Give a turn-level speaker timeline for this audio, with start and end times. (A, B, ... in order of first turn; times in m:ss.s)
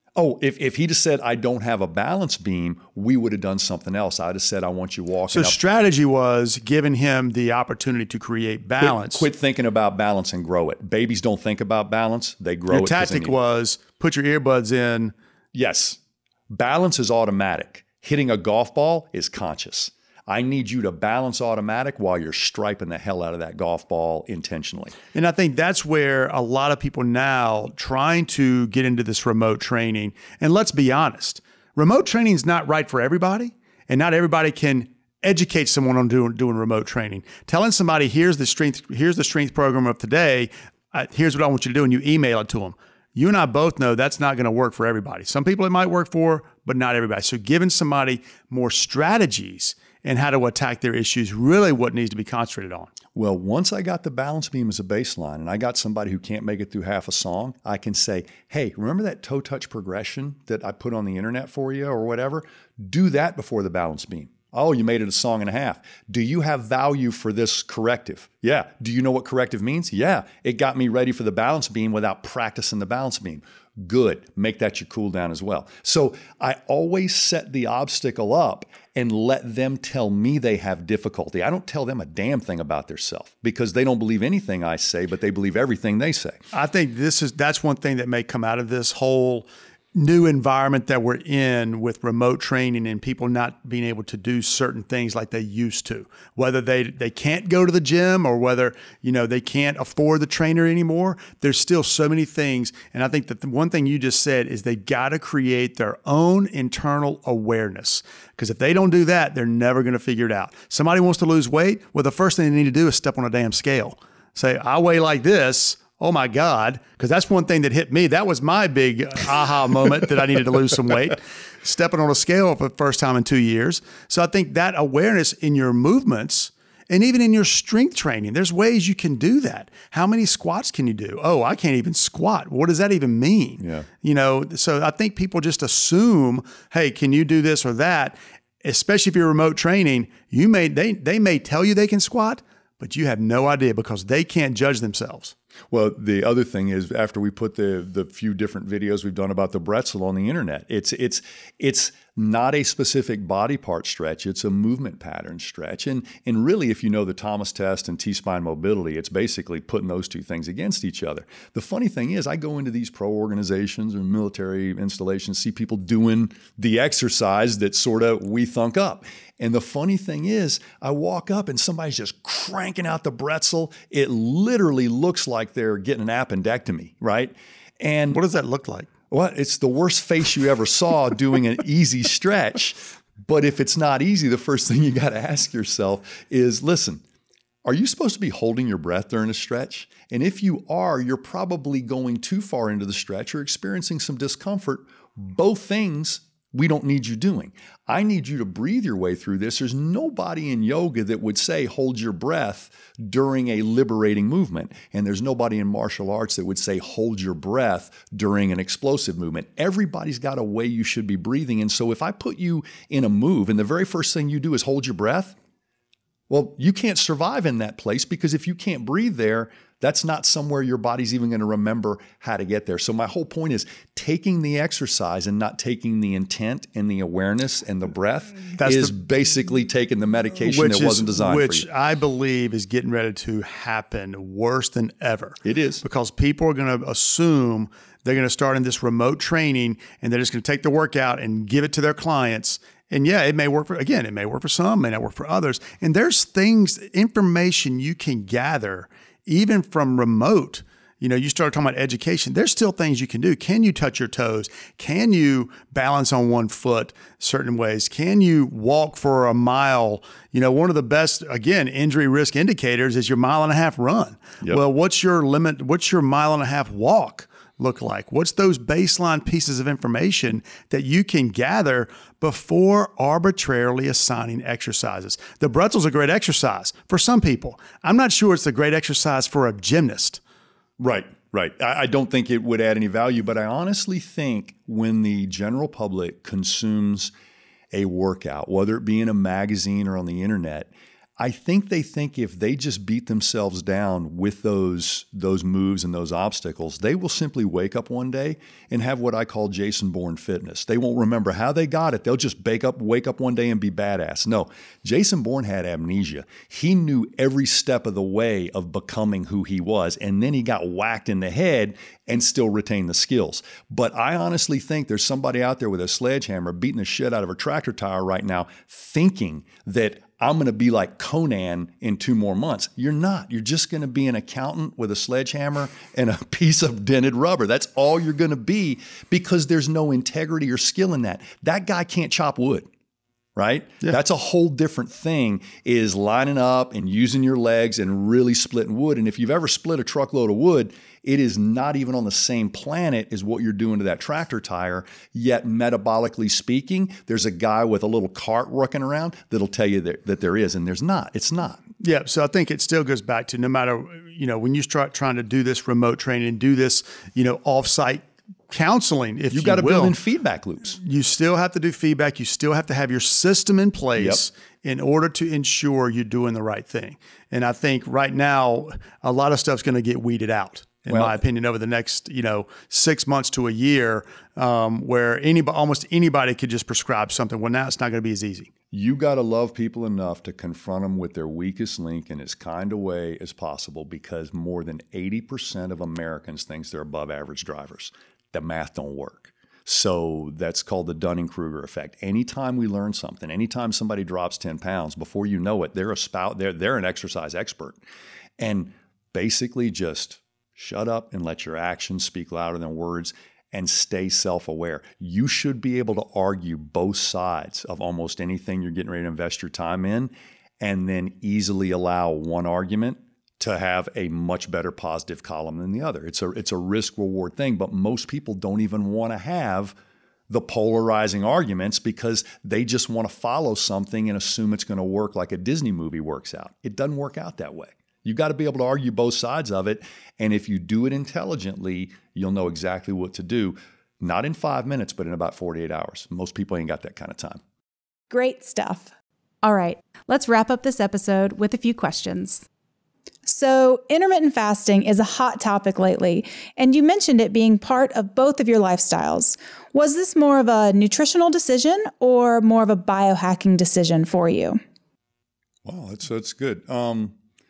0:00.2-0:05.6 A
0:05.3-0:09.2 B
0:08.8-0:13.4 A
0:12.7-0:15.1 B
0:15.5-0:16.0 A
0:16.5-0:25.0 A
0:25.1-0:52.9 B
0:53.2-1:26.4 A
1:26.5-2:25.4 B
2:13.6-2:13.9 A
2:25.7-2:58.2 A
2:58.1-2:58.9 B
2:59.1-3:07.0 A
3:07.6-3:35.4 A
3:36.3-3:51.7 A
3:48.6-3:48.9 B
3:50.4-4:40.2 B
3:55.4-3:55.8 A
4:40.8-4:47.1 A
4:47.7-5:32.7 A
5:33.4-5:51.6 A
5:51.8-5:59.9 B
5:59.3-6:00.8 A
6:00.8-6:18.5 B
6:04.0-6:04.3 A
6:10.9-6:11.2 A
6:18.7-6:37.8 A
6:38.4-6:59.8 A
7:00.3-7:17.4 A
7:18.1-7:18.9 C
7:19.4-7:22.4 C
7:23.3-7:34.6 C
7:35.6-7:37.2 A